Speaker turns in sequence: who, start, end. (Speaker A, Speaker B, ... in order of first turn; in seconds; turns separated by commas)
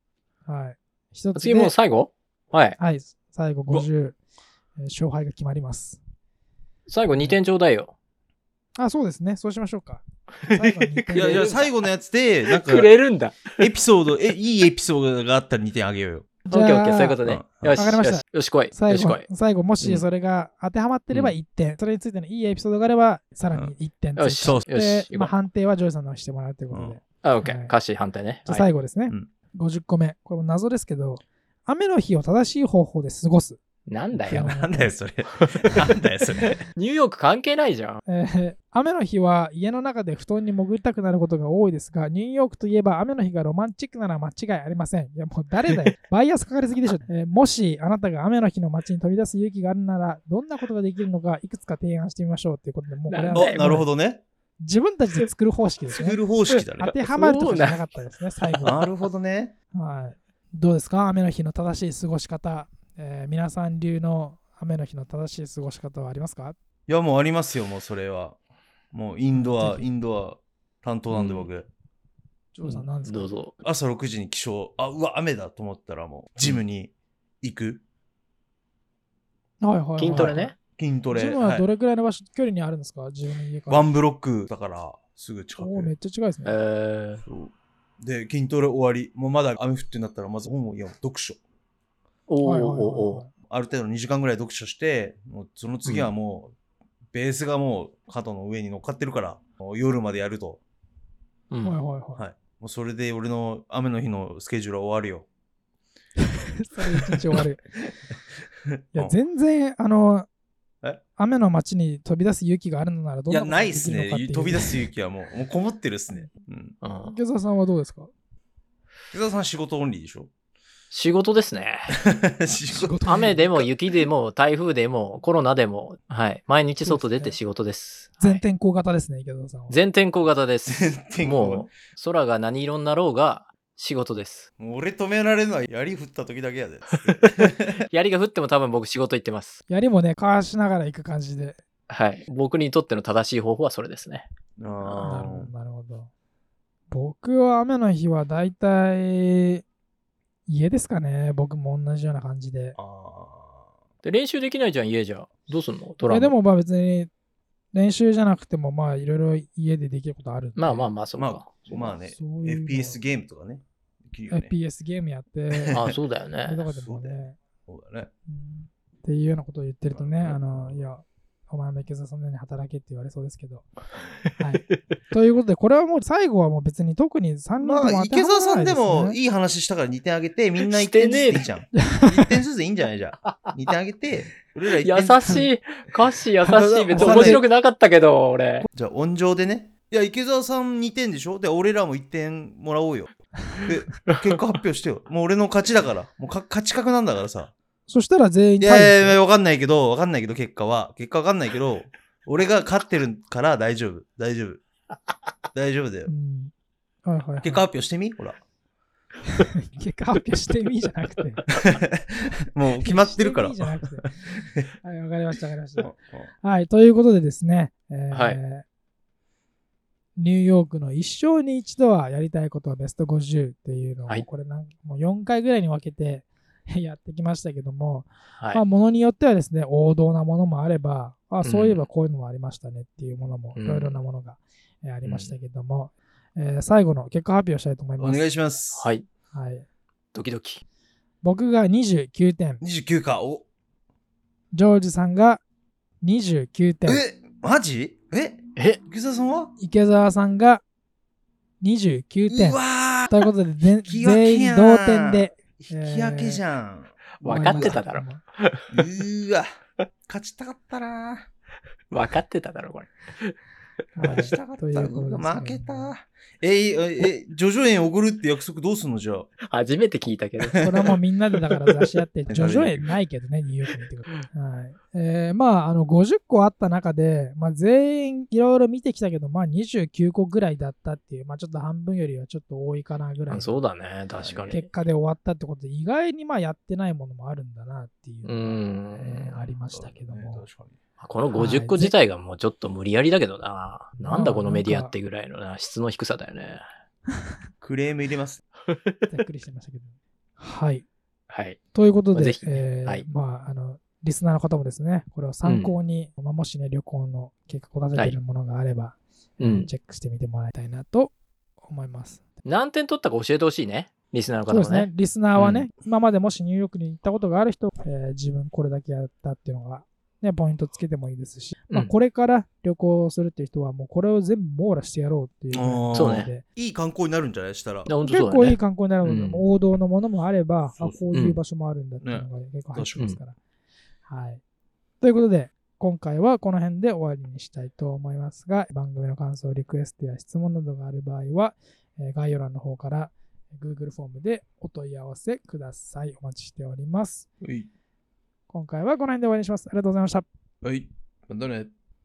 Speaker A: 0.5-1.7, Speaker B: 1.4-2.8, Speaker A: 2.8-4.2, Speaker A: 4.8-6.0, Speaker B: 6.9-7.9, Speaker A: 8.8-11.5, Speaker B: 10.4-11.8, Speaker C: 11.1-12.9, Speaker B: 12.5-13.7, Speaker C: 13.6-16.4, Speaker A: 16.5-17.2, Speaker B: 16.5-19.3, Speaker C: 17.2-17.8, Speaker A: 17.7-27.8, Speaker B: 21.1-21.4, Speaker B: 24.2-25.3, Speaker C: 24.4-24.7, Speaker C: 26.7-27.0, Speaker B: 27.2-28.6, Speaker A: 28.5-33.6, Speaker B: 33.9-34.5, Speaker C: 34.2-36.6, Speaker A: 34.3-34.9, Speaker B: 35.4-35.8, Speaker B: 36.4-38.0, Speaker A: 38.1-53.9, Speaker B: 53.1-53.8, Speaker C: 53.3-54.2, Speaker A: 54.6-56.2, Speaker C: 55.9-57.0, Speaker B: 56.5-58.9, Speaker A: 56.8-58.8, Speaker C: 58.6-59.5, Speaker A: 59.7-66.6, Speaker C: 66.9-68.4, Speaker C: 68.9-71.7, Speaker A: 69.3-69.8, Speaker B: 71.1-71.5, Speaker A: 72.5-73.3, Speaker B: 72.6-73.5, Speaker C: 73.6-76.9, Speaker C: 77.4-77.8, Speaker A: 79.6-80.5, Speaker B: 80.0-80.6, Speaker C: 80.1-81.7, Speaker A: 81.1-83.9, Speaker C: 83.7-85.9, Speaker A: 85.6-86.6, Speaker B: 86.5-87.2, Speaker C: 87.3-91.4, Speaker B: 92.3-93.2, Speaker A: 92.4-93.3, Speaker C: 93.5-96.5, Speaker B: 95.8-96.1, Speaker C: 97.1-100.6, Speaker B: 101.5-101.8, Speaker A: 101.6-102.2, Speaker C: 102.2-105.3, Speaker A: 106.4-107.6, Speaker C: 108.7-109.2, Speaker A: 108.9-110.3, Speaker A: 111.2-114.9, Speaker C: 113.3-116.8, Speaker B: 116.8-117.2, Speaker A: 117.0-118.1, Speaker C: 119.1-120.3, Speaker B: 120.9-122.0, Speaker C: 122.0-124.0, Speaker A: 122.7-123.4, Speaker B: 123.1-128.4, Speaker A: 126.8-127.4, Speaker A: 128.2-129.8, Speaker B: 129.7-134.5, Speaker C: 130.7-131.7, Speaker C: 134.6-137.8, Speaker B: 137.0-139.6, Speaker A: 139.7-141.6, Speaker B: 141.9-144.3, Speaker C: 144.6-145.5, Speaker B: 144.8-145.3, Speaker A: 145.0-146.1, Speaker A: 146.9-149.6, Speaker A: 150.5-152.8, Speaker C: 152.8-153.7, Speaker B: 154.0-156.3, Speaker A: 156.1-157.1, Speaker A: 157.7-160.9, Speaker B: 160.6-161.5, Speaker C: 161.2-164.5, Speaker A: 161.7-163.0, Speaker A: 164.3-165.9, Speaker C: 165.6-165.9, Speaker B: 165.7-166.6, Speaker A: 166.5-167.4, Speaker C: 166.7-168.1, Speaker A: 168.3-173.7, Speaker C: 169.9-170.9, Speaker A: 174.4-179.2, Speaker C: 177.6-185.5, Speaker B: 180.6-181.5, Speaker A: 181.7-182.4, Speaker B: 183.3-183.5, Speaker B: 184.8-188.7, Speaker C: 186.4-187.4, Speaker A: 186.9-187.4, Speaker C: 188.7-197.5, Speaker B: 194.1-194.4, Speaker A: 197.9-199.2, Speaker C: 198.6-204.6, Speaker C: 205.5-206.1, Speaker A: 206.1-206.5, Speaker A: 207.1-207.6, Speaker C: 207.4-208.4, Speaker A: 209.3-211.4, Speaker C: 211.6-214.7, Speaker A: 212.8-214.1, Speaker A: 214.8-218.7, Speaker C: 215.8-216.3, Speaker B: 218.1-218.4, Speaker A: 220.2-238.2, Speaker B: 231.4-231.8, Speaker B: 233.6-234.0, Speaker B: 235.0-235.3, Speaker C: 238.0-238.9, Speaker B: 238.8-239.1, Speaker A: 239.3-239.7, Speaker B: 240.1-240.6, Speaker A: 241.2-242.6, Speaker C: 242.6-243.4, Speaker A: 244.5-245.4, Speaker A: 246.0-247.0, Speaker C: 246.9-249.5, Speaker B: 248.6-248.8, Speaker A: 249.6-250.6, Speaker A: 251.6-256.4, Speaker C: 252.3-253.3, Speaker C: 253.8-257.8, Speaker B: 257.2-258.9, Speaker A: 257.2-258.2, Speaker C: 258.7-259.5, Speaker C: 260.1-261.3, Speaker B: 261.9-263.4, Speaker A: 264.0-265.9, Speaker C: 264.0-269.3, Speaker B: 269.4-271.0, Speaker A: 270.6-283.6, Speaker C: 272.3-272.9, Speaker B: 283.3-284.7, Speaker C: 284.1-284.6, Speaker A: 284.5-290.4, Speaker B: 288.2-289.5, Speaker C: 289.7-290.8, Speaker B: 291.0-296.6, Speaker A: 291.3-291.9, Speaker A: 294.0-294.9, Speaker C: 297.6-298.4, Speaker B: 298.7-299.0, Speaker A: 299.1-300.9, Speaker B: 301.3-301.6, Speaker A: 301.7-311.1, Speaker B: 302.1-303.1, Speaker B: 305.4-305.7, Speaker B: 309.4-309.7, Speaker A: 311.7-312.3, Speaker B: 312.4-315.7, Speaker A: 314.5-326.4, Speaker C: 325.5-327.9, Speaker B: 325.9-326.3, Speaker B: 327.9-329.4, Speaker A: 328.0-333.4, Speaker B: 331.1-331.4, Speaker C: 332.0-333.2, Speaker A: 334.1-334.4, Speaker A: 335.0-347.3, Speaker C: 347.4-347.7, Speaker A: 348.5-350.2, Speaker C: 350.6-351.7